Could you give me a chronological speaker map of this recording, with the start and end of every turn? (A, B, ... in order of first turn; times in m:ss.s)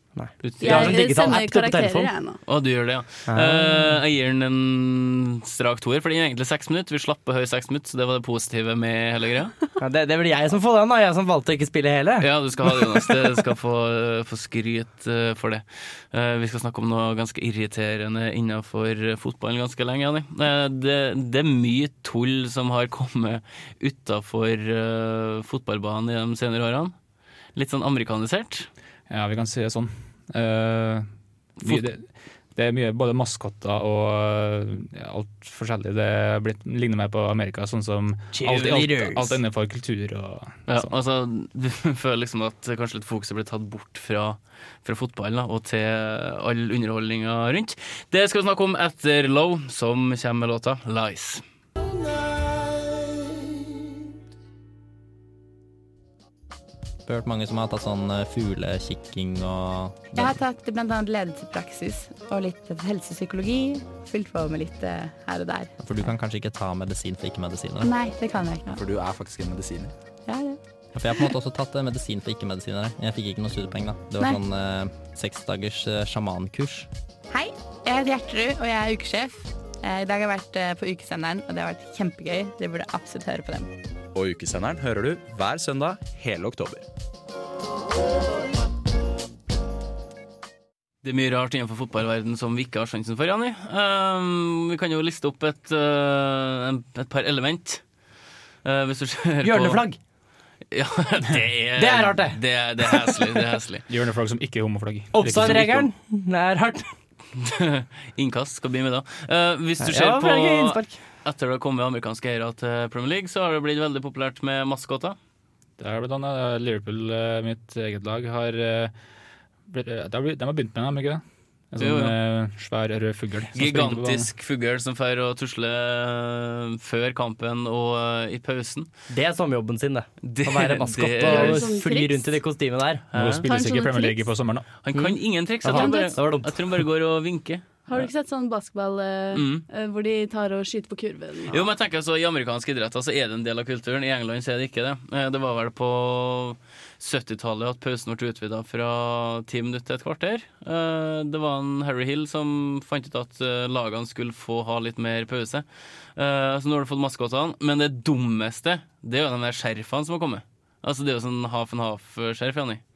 0:00.2-0:02.1 A
0:00.4-0:01.0 B
0:00.6-0:02.4 C
0:02.5-0:09.5 B
0:03.3-0:04.0 A
0:09.8-0:13.2 A
0:12.2-0:26.9 B
0:27.6-0:28.7 B
0:29.1-0:31.1 D
0:31.6-0:40.9 D
0:38.3-0:39.4 A
0:40.7-0:51.4 B
0:57.1-1:00.4 E
1:00.2-1:05.8 F
1:05.8-1:07.9 E
1:07.8-1:08.8 F
1:08.7-1:09.9 G
1:10.3-1:10.6 F
1:10.9-1:16.9 E
1:17.3-1:23.7 F
1:24.1-1:26.8 G
1:31.0-1:37.8 B
1:38.6-1:39.8 B
1:39.4-1:40.0 A
1:40.7-1:43.8 B
1:41.8-1:42.4 A
1:42.9-1:43.2 A
1:43.9-1:45.9 D
1:45.1-1:46.8 A
1:45.2-1:45.7 B
1:47.4-1:55.2 B
1:49.8-1:51.0 A
1:55.8-1:58.9 D
1:59.7-2:04.3 D
2:01.8-2:02.2 B
2:03.5-2:08.9 B
2:09.1-2:13.0 A
2:10.2-2:11.8 B
2:11.2-2:12.4 C
2:13.1-2:13.5 B
2:13.1-2:14.7 D
2:13.5-2:14.2 C
2:14.8-2:18.0 B
2:14.9-2:16.6 A
2:15.7-2:16.2 C
2:17.9-2:21.7 C
2:19.3-2:19.7 B
2:21.5-2:35.6 B
2:36.2-2:42.8 B